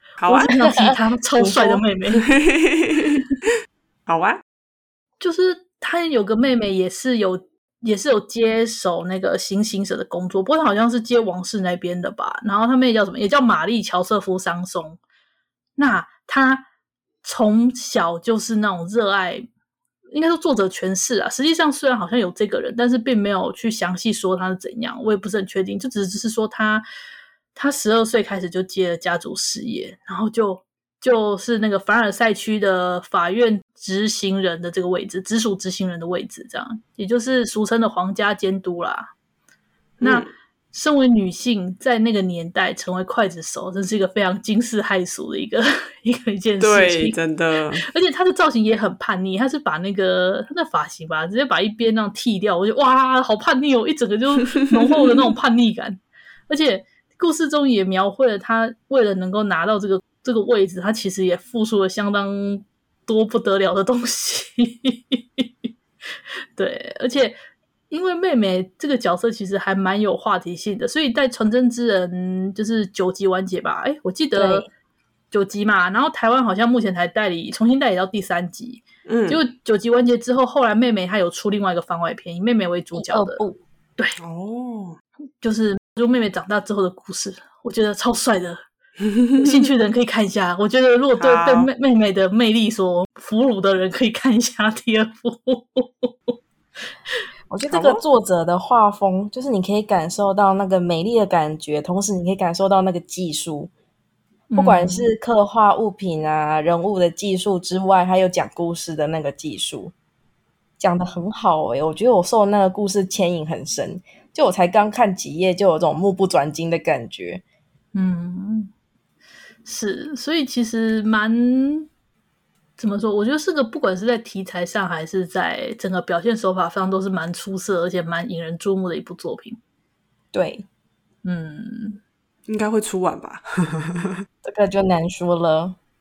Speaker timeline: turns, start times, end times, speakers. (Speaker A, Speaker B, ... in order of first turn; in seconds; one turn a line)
Speaker A: 0.2-0.5
Speaker B: 0.3-1.8
Speaker C: 0.4-2.3
Speaker A: 2.1-3.2
Speaker A: 4.1-4.4
Speaker C: 5.2-15.0
Speaker C: 15.8-16.7
Speaker C: 17.2-19.5
Speaker C: 20.1-26.9
Speaker C: 27.5-39.1
Speaker A: 40.0-40.3
Speaker C: 40.0-47.2
Speaker A: 46.6-47.9
Speaker C: 47.8-65.5
Speaker C: 66.6-67.4
Speaker C: 67.9-74.7
Speaker B: 74.3-74.7
Speaker C: 75.3-83.4
Speaker A: 79.1-79.4
Speaker B: 82.9-83.6
Speaker A: 84.2-85.0
Speaker C: 85.4-88.6
Speaker A: 89.0-89.6
Speaker C: 89.4-96.3
Speaker A: 91.2-91.7
Speaker B: 97.5-103.7
Speaker A: 97.7-98.0
Speaker C: 104.5-105.1
Speaker B: 104.5-109.9
Speaker B: 110.8-117.4
Speaker C: 117.9-118.7
Speaker C: 119.7-121.9
Speaker C: 122.8-129.6
Speaker B: 130.3-130.7
Speaker C: 131.2-132.0
Speaker A: 132.5-134.2
Speaker B: 134.4-135.8